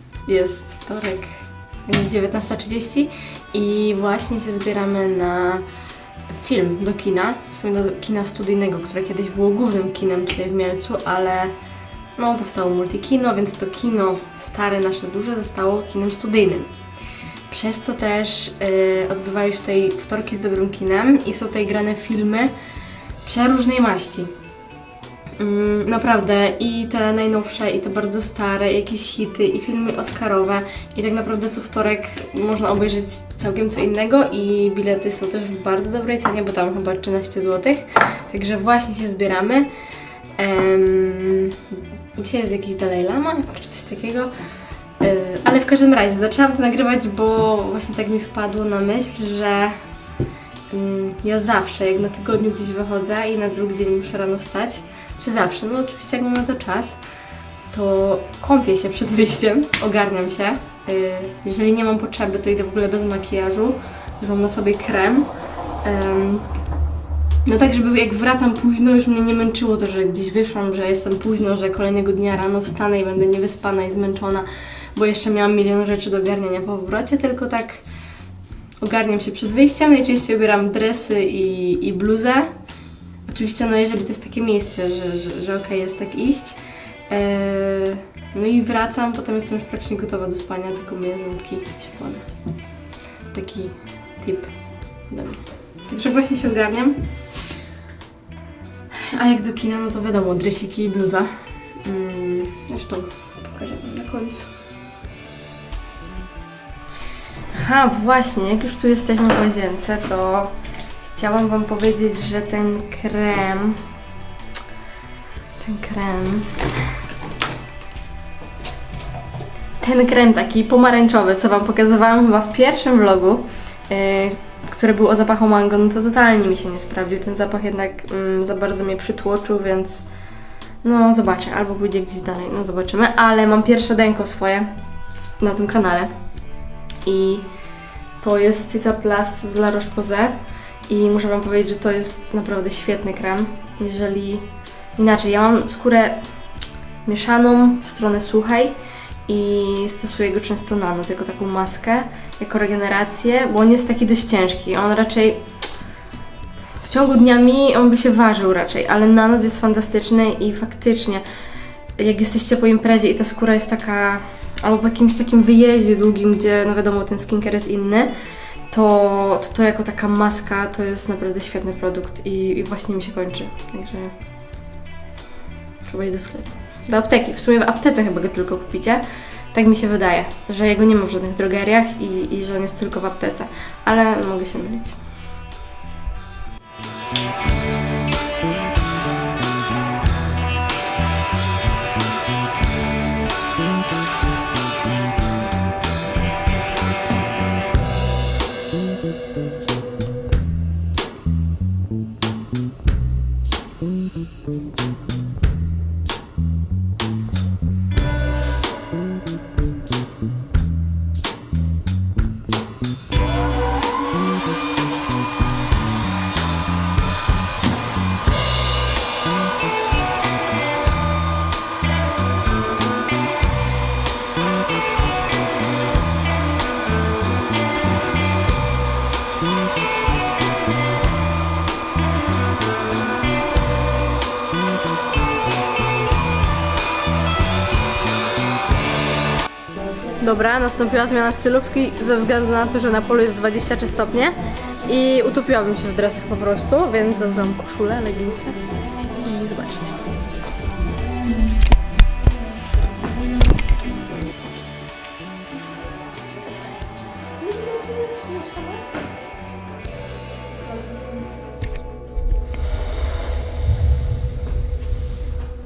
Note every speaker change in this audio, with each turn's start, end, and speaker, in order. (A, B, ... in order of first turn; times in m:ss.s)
0:00.2-0:05.7 A
0:06.3-0:11.6 A
0:12.1-0:16.8 A
0:17.5-0:22.6 A
0:23.2-0:24.3 A
0:25.4-0:39.7 A
0:40.4-0:49.8 A
0:50.7-0:57.0 A
0:57.7-1:06.6 A
1:07.4-1:17.8 A
1:18.8-1:22.6 A
1:23.2-1:32.4 A
1:33.3-1:37.1 A
1:38.9-1:44.5 A
1:47.5-1:53.9 A
1:55.6-1:56.9 A
1:59.8-2:10.1 A
2:10.8-2:14.8 A
2:15.4-2:16.2 A
2:17.0-2:17.5 A
2:18.2-2:26.3 A
2:27.0-2:35.5 A
2:36.8-2:41.2 A
2:42.0-2:54.2 A
2:55.8-3:05.0 A
4:00.2-4:08.6 A
4:09.2-4:10.2 A
4:17.6-4:18.8 A
4:20.5-4:21.3 A